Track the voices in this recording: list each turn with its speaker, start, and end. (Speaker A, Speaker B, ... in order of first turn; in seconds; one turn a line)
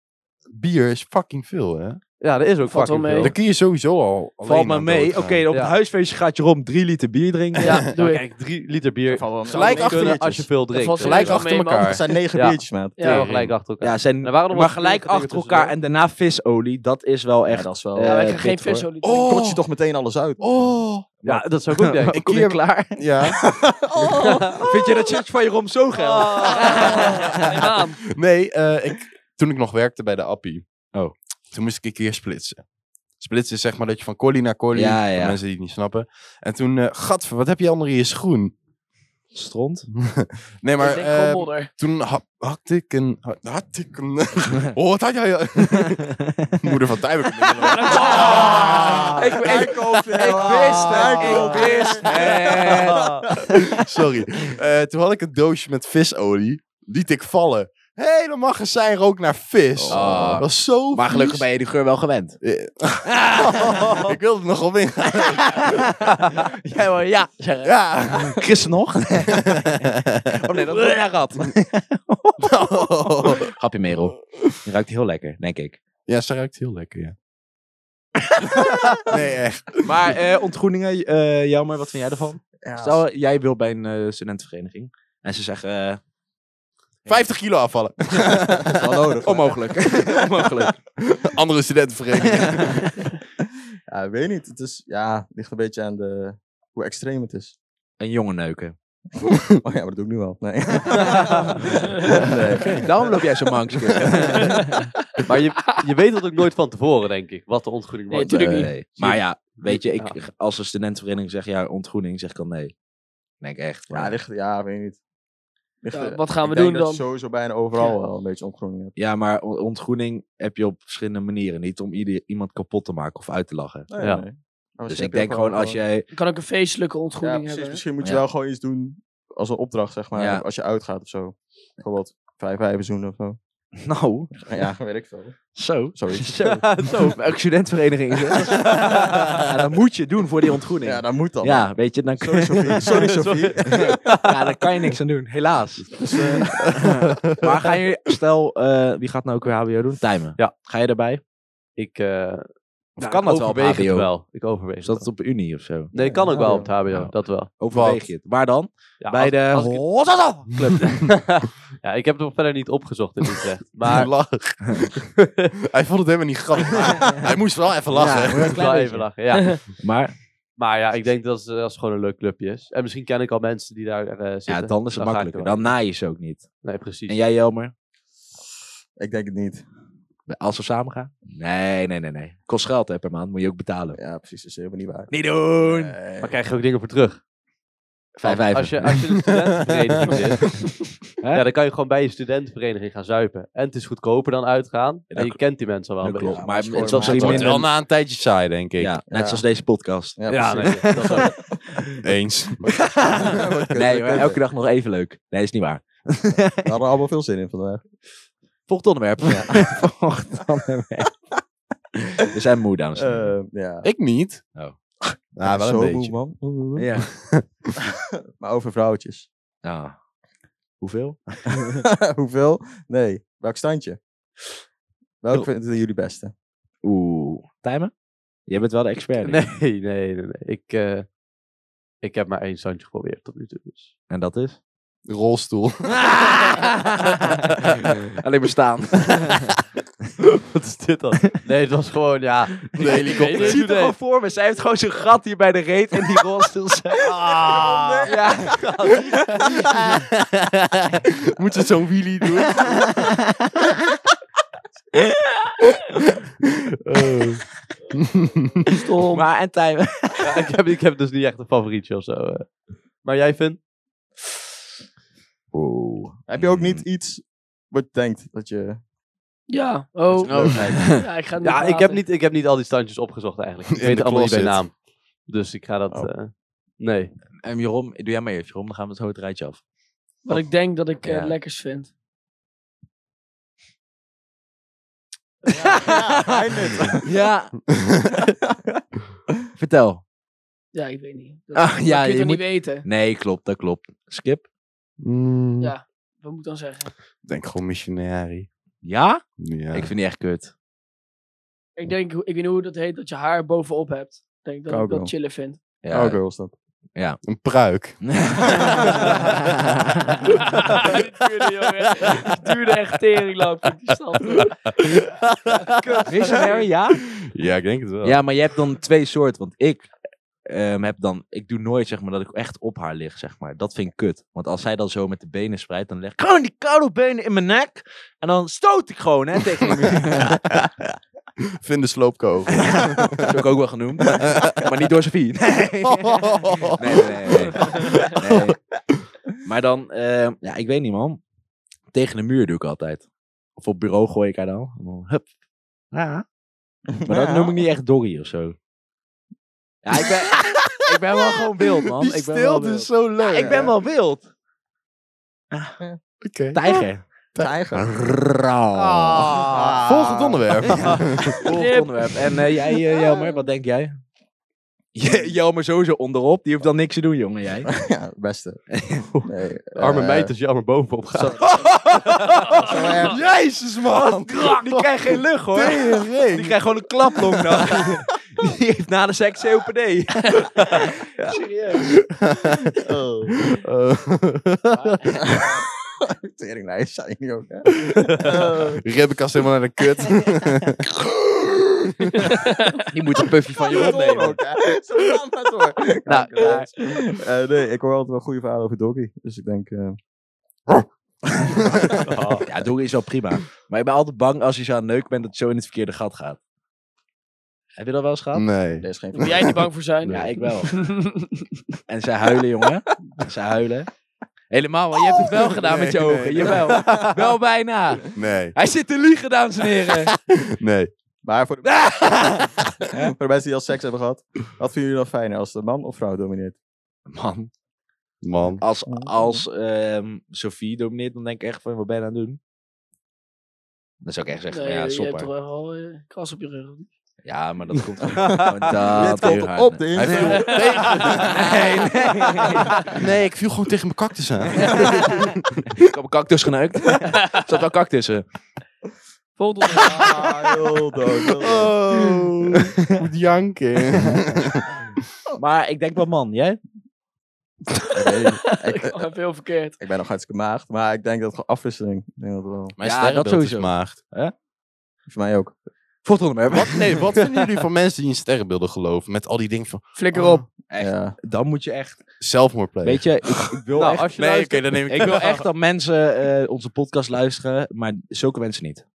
Speaker A: 0.5-2.0
Speaker B: 2.2-3.3
Speaker C: 2.7-3.3
Speaker A: 3.2-5.4
Speaker D: 4.4-7.8
Speaker C: 7.6-8.2
Speaker A: 7.6-7.9
Speaker B: 8.0-11.4
Speaker E: 9.1-10.5
Speaker A: 9.5-10.2
Speaker C: 10.7-12.0
Speaker A: 10.9-12.0
Speaker E: 11.8-13.2
Speaker B: 12.3-15.7
Speaker C: 13.0-13.2
Speaker A: 13.1-13.5
Speaker D: 13.8-18.9
Speaker E: 17.5-18.2
Speaker C: 18.0-19.5
Speaker A: 19.0-19.6
Speaker E: 19.2-20.4
Speaker A: 20.4-21.2
Speaker D: 21.2-23.4
Speaker B: 21.2-22.2
Speaker A: 22.1-23.4
Speaker E: 23.4-25.1
Speaker B: 24.2-24.5
Speaker D: 24.5-27.4
Speaker C: 26.4-28.0
Speaker A: 26.5-30.6
Speaker A: 31.5-32.6
Speaker A: 33.2-38.5
Speaker D: 34.7-35.4
Speaker D: 39.3-39.9
Speaker A: 40.0-61.4
Speaker C: 40.8-41.7
Speaker D: 45.8-46.5
Speaker D: 47.4-53.6
Speaker C: 47.6-48.9
Speaker E: 48.2-53.4
Speaker E: 59.8-60.3
Speaker D: 59.9-62.4
Speaker A: 62.4-65.9
Speaker D: 63.2-64.0
Speaker D: 65.2-75.8
Speaker A: 67.6-68.4
Speaker A: 69.3-70.4
Speaker A: 72.4-73.5
Speaker A: 76.0-77.1
Speaker D: 78.3-79.0
Speaker A: 78.6-80.2
Speaker D: 79.8-86.0
Speaker E: 82.6-83.0
Speaker A: 87.0-88.8
Speaker E: 88.7-90.3
Speaker D: 89.2-90.8
Speaker A: 91.0-93.1
Speaker D: 92.2-93.0
Speaker E: 93.9-97.5
Speaker D: 98.0-98.7
Speaker E: 99.6-103.1
Speaker D: 101.0-101.4
Speaker D: 102.2-104.9
Speaker A: 102.5-102.9
Speaker C: 104.4-104.8
Speaker B: 105.2-110.2
Speaker C: 108.1-108.7
Speaker E: 108.3-108.7
Speaker D: 108.3-112.7
Speaker D: 113.4-114.2
Speaker E: 113.9-115.0
Speaker E: 115.8-118.9
Speaker C: 115.9-117.0
Speaker D: 119.0-123.9
Speaker E: 123.9-125.8
Speaker D: 124.9-126.0
Speaker C: 126.1-127.8
Speaker E: 127.2-133.4
Speaker D: 130.1-130.4
Speaker D: 133.8-134.7
Speaker E: 134.4-135.4
Speaker D: 135.6-143.1
Speaker E: 135.9-136.6
Speaker B: 136.4-137.2
Speaker B: 138.3-139.5
Speaker E: 140.8-143.9
Speaker B: 142.8-144.6
Speaker D: 143.7-151.2
Speaker E: 146.0-146.7
Speaker A: 146.8-147.5
Speaker B: 151.8-155.1
Speaker D: 153.0-154.1
Speaker D: 154.8-161.1
Speaker B: 155.9-157.5
Speaker E: 156.0-156.7
Speaker A: 157.7-158.1
Speaker B: 159.0-159.8
Speaker B: 160.6-164.1
Speaker A: 160.9-161.1
Speaker A: 163.8-168.6
Speaker B: 165.2-165.5
Speaker D: 167.9-169.1
Speaker B: 168.4-169.8
Speaker D: 169.7-170.1
Speaker B: 170.6-175.7
Speaker D: 174.5-176.5
Speaker B: 176.6-177.2
Speaker D: 177.1-177.7
Speaker E: 179.0-179.6
Speaker D: 180.3-184.0
Speaker E: 183.9-186.3
Speaker D: 185.1-186.0
Speaker B: 186.2-187.2
Speaker D: 188.2-188.9
Speaker B: 188.2-190.5
Speaker A: 188.8-189.3
Speaker A: 190.1-190.6
Speaker B: 191.3-197.6
Speaker D: 195.1-195.4
Speaker D: 196.0-197.7
Speaker E: 196.2-197.6
Speaker A: 197.1-199.0
Speaker D: 198.8-202.0
Speaker E: 199.1-199.4
Speaker E: 200.2-201.6
Speaker B: 200.3-201.3
Speaker A: 202.0-203.5
Speaker D: 202.7-206.7
Speaker E: 203.0-204.4
Speaker E: 206.6-207.8
Speaker D: 208.7-211.1
Speaker E: 209.3-209.6
Speaker D: 212.2-213.3
Speaker E: 213.0-213.9
Speaker A: 213.8-214.4
Speaker E: 215.0-216.9
Speaker A: 215.3-216.1
Speaker D: 216.8-217.1
Speaker A: 217.0-217.7
Speaker E: 217.8-219.3
Speaker D: 219.6-219.9
Speaker D: 220.8-221.8
Speaker E: 221.8-224.0
Speaker E: 225.2-226.3
Speaker D: 226.8-227.9
Speaker D: 228.5-229.4
Speaker B: 229.2-231.1
Speaker B: 232.0-233.9
Speaker D: 234.1-234.6
Speaker A: 235.0-235.9
Speaker D: 235.9-239.5
Speaker B: 240.3-243.9
Speaker A: 242.8-243.6
Speaker D: 242.8-250.0
Speaker E: 247.1-248.3
Speaker B: 247.2-249.1
Speaker A: 251.2-253.2
Speaker D: 252.6-253.7
Speaker A: 255.8-257.4
Speaker A: 257.9-258.8
Speaker C: 258.6-259.2
Speaker D: 259.1-260.5
Speaker B: 260.2-263.6
Speaker D: 265.5-266.8
Speaker E: 266.3-268.8
Speaker C: 269.5-272.0
Speaker E: 270.1-270.9
Speaker D: 270.2-271.0
Speaker B: 271.4-277.1
Speaker A: 273.7-274.6
Speaker D: 277.4-279.6
Speaker C: 280.2-281.9
Speaker D: 281.0-281.3
Speaker E: 285.5-287.1
Speaker D: 285.5-286.4
Speaker D: 286.9-287.6
Speaker E: 288.3-288.8
Speaker D: 289.6-290.0
Speaker C: 290.7-292.9
Speaker D: 291.5-294.5
Speaker A: 295.0-295.7
Speaker C: 295.6-296.9
Speaker A: 297.2-298.5
Speaker D: 298.8-300.5
Speaker A: 299.4-299.9
Speaker C: 301.8-305.6
Speaker E: 304.7-305.1
Speaker D: 305.8-306.2
Speaker E: 305.9-306.5
Speaker A: 307.2-309.4
Speaker D: 308.0-310.4
Speaker C: 310.5-314.7
Speaker A: 310.5-311.0
Speaker A: 312.0-312.4
Speaker A: 314.3-316.1
Speaker C: 315.9-316.5
Speaker D: 315.9-317.0
Speaker A: 317.1-318.1
Speaker D: 318.0-319.9
Speaker D: 320.4-330.5
Speaker A: 329.8-330.7
Speaker A: 331.6-333.4
Speaker D: 332.5-338.6
Speaker A: 334.0-334.7
Speaker A: 335.9-338.5
Speaker D: 339.4-341.2
Speaker D: 341.9-343.0
Speaker D: 343.6-345.3
Speaker D: 345.9-346.2
Speaker E: 346.9-347.6
Speaker D: 347.0-348.6
Speaker D: 349.8-354.2
Speaker A: 349.9-353.7
Speaker E: 353.4-353.7
Speaker D: 355.5-355.8
Speaker A: 356.2-357.6
Speaker D: 356.5-357.0
Speaker E: 357.4-357.9
Speaker D: 357.7-359.4
Speaker A: 358.7-361.4
Speaker E: 359.2-360.9
Speaker D: 360.8-364.0
Speaker C: 361.5-362.3
Speaker D: 364.9-367.7
Speaker E: 367.7-368.6
Speaker D: 368.7-369.1
Speaker E: 369.2-370.3
Speaker B: 369.8-371.5
Speaker E: 371.2-371.5
Speaker D: 371.3-382.0
Speaker E: 372.5-373.2
Speaker A: 373.0-376.6
Speaker A: 377.1-377.8
Speaker A: 381.9-382.8
Speaker E: 382.8-383.4
Speaker A: 383.4-385.1
Speaker E: 385.1-388.8
Speaker A: 388.8-392.3
Speaker C: 392.1-392.8
Speaker D: 392.9-394.4
Speaker E: 393.6-400.0
Speaker D: 396.1-396.7
Speaker E: 401.3-401.9
Speaker A: 401.6-402.0
Speaker B: 402.1-402.4
Speaker D: 402.4-406.4
Speaker D: 407.8-408.4
Speaker A: 408.3-409.4
Speaker E: 408.8-409.6
Speaker C: 409.1-411.5
Speaker D: 410.1-410.7
Speaker D: 411.9-413.9
Speaker D: 414.5-420.1
Speaker A: 415.6-417.1
Speaker A: 418.1-418.5
Speaker A: 420.3-420.9
Speaker E: 421.2-426.6
Speaker D: 421.6-423.1
Speaker D: 427.1-427.5
Speaker A: 428.2-428.6
Speaker D: 428.6-432.4
Speaker E: 428.9-429.4
Speaker D: 434.0-435.3
Speaker C: 434.5-436.9
Speaker D: 437.2-442.8
Speaker B: 437.8-438.8
Speaker E: 438.2-440.9
Speaker A: 440.0-441.9
Speaker C: 440.3-440.9
Speaker A: 442.9-445.8
Speaker D: 444.6-445.2
Speaker D: 445.8-448.2
Speaker C: 449.4-450.4
Speaker E: 449.9-452.1
Speaker A: 451.4-454.7
Speaker D: 455.4-456.6
Speaker E: 457.9-459.0
Speaker C: 458.3-459.8
Speaker E: 459.8-462.8
Speaker A: 462.8-464.0
Speaker D: 462.8-464.3
Speaker E: 465.1-465.5
Speaker D: 466.0-467.1
Speaker A: 466.5-470.4
Speaker C: 469.9-470.4
Speaker D: 470.7-472.0
Speaker E: 470.8-471.1
Speaker A: 472.2-473.6
Speaker D: 472.8-478.8
Speaker B: 473.7-475.1
Speaker A: 474.1-475.4